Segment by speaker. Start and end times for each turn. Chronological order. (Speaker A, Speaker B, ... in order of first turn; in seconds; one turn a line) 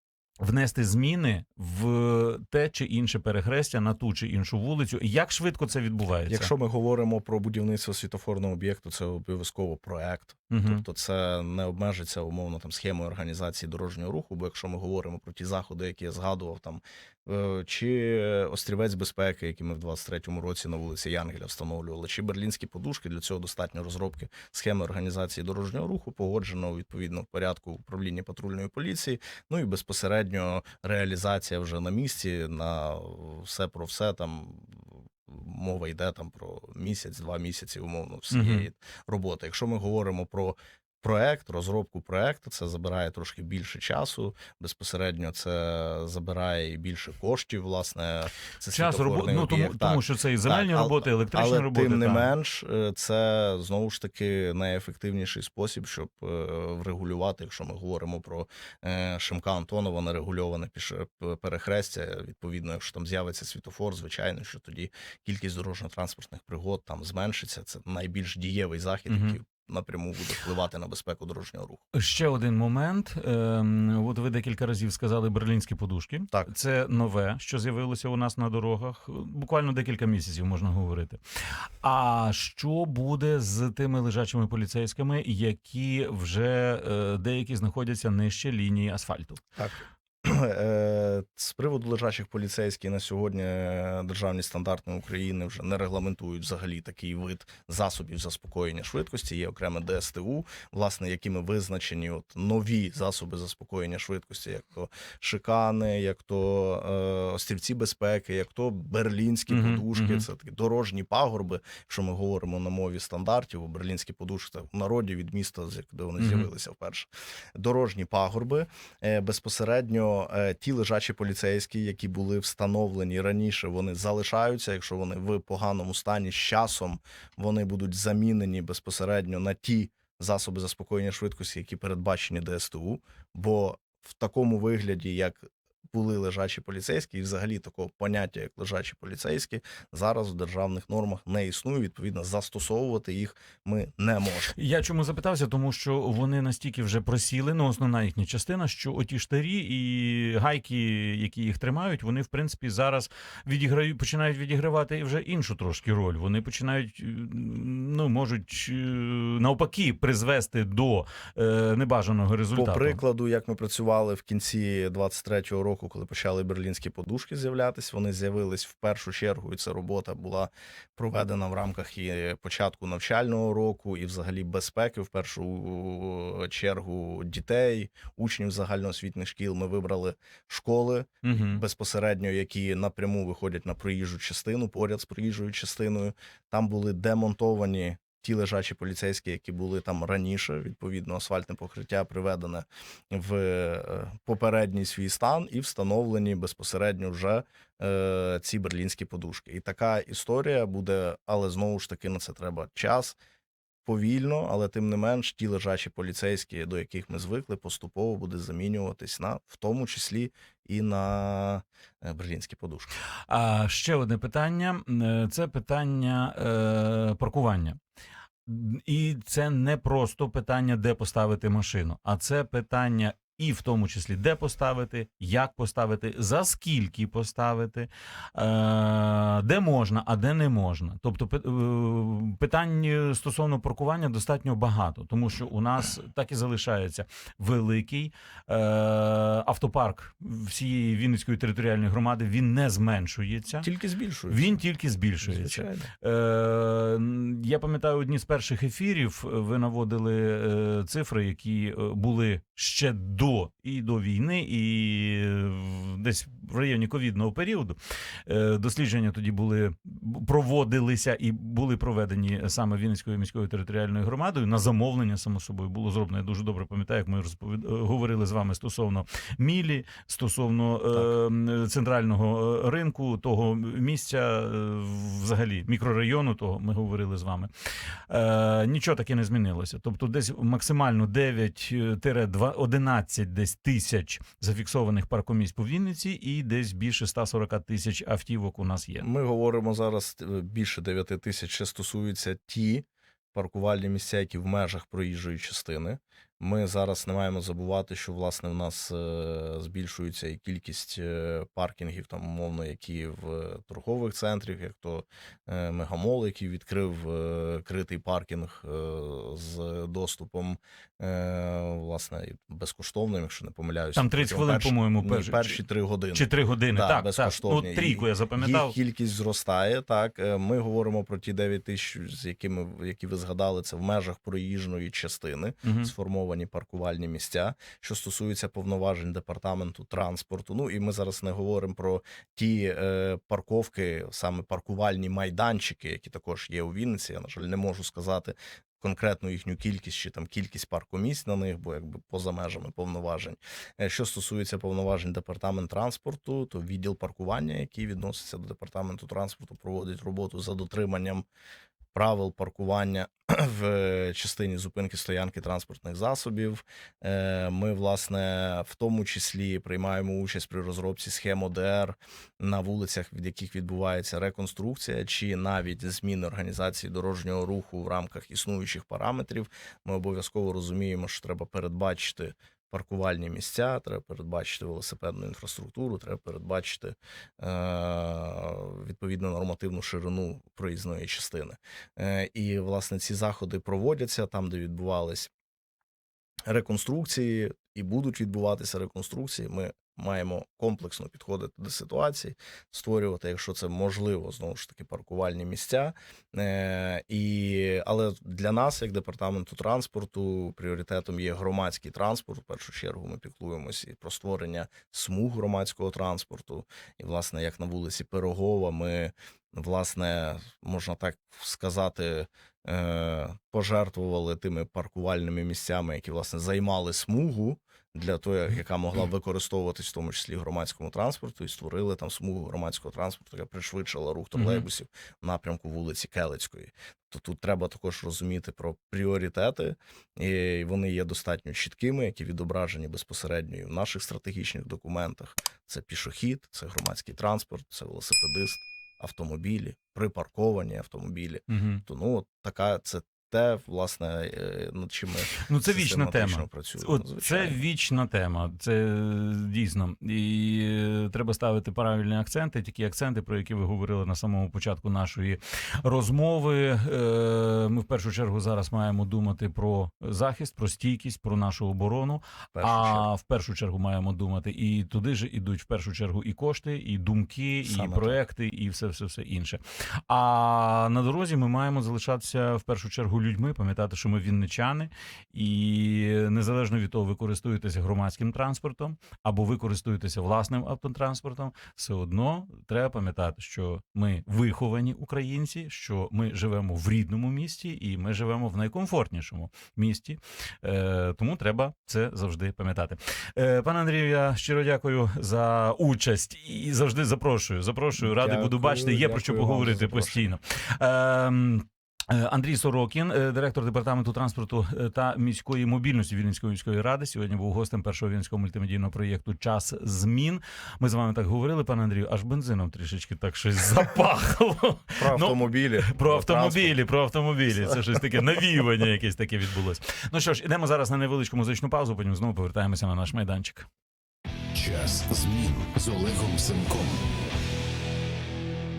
Speaker A: 0.4-6.5
Speaker B: 6.3-71.8
Speaker A: 10.5-10.8
Speaker A: 38.3-38.7
Speaker A: 48.7-52.3
Speaker A: 69.1-69.4
Speaker A: 71.9-81.2
Speaker A: 81.8-89.4
Speaker B: 89.6-144.6
Speaker A: 109.5-110.2
Speaker A: 116.2-116.5
Speaker A: 144.6-163.0
Speaker B: 162.6-203.2
Speaker A: 181.2-181.6
Speaker B: 203.8-212.9
Speaker A: 213.3-217.8
Speaker A: 218.5-243.7
Speaker B: 243.6-244.6
Speaker A: 244.3-277.5
Speaker B: 245.2-245.9
Speaker A: 278.1-289.1
Speaker B: 289.0-351.2
Speaker A: 313.9-315.6
Speaker A: 316.1-318.8
Speaker A: 325.6-325.9
Speaker B: 351.9-385.3
Speaker B: 386.5-447.6
Speaker A: 424.4-424.6
Speaker A: 441.5-441.8
Speaker A: 445.5-523.7
Speaker B: 462.6-463.1
Speaker B: 467.6-468.2
Speaker B: 498.0-500.4
Speaker B: 515.0-516.8
Speaker C: 524.6-526.9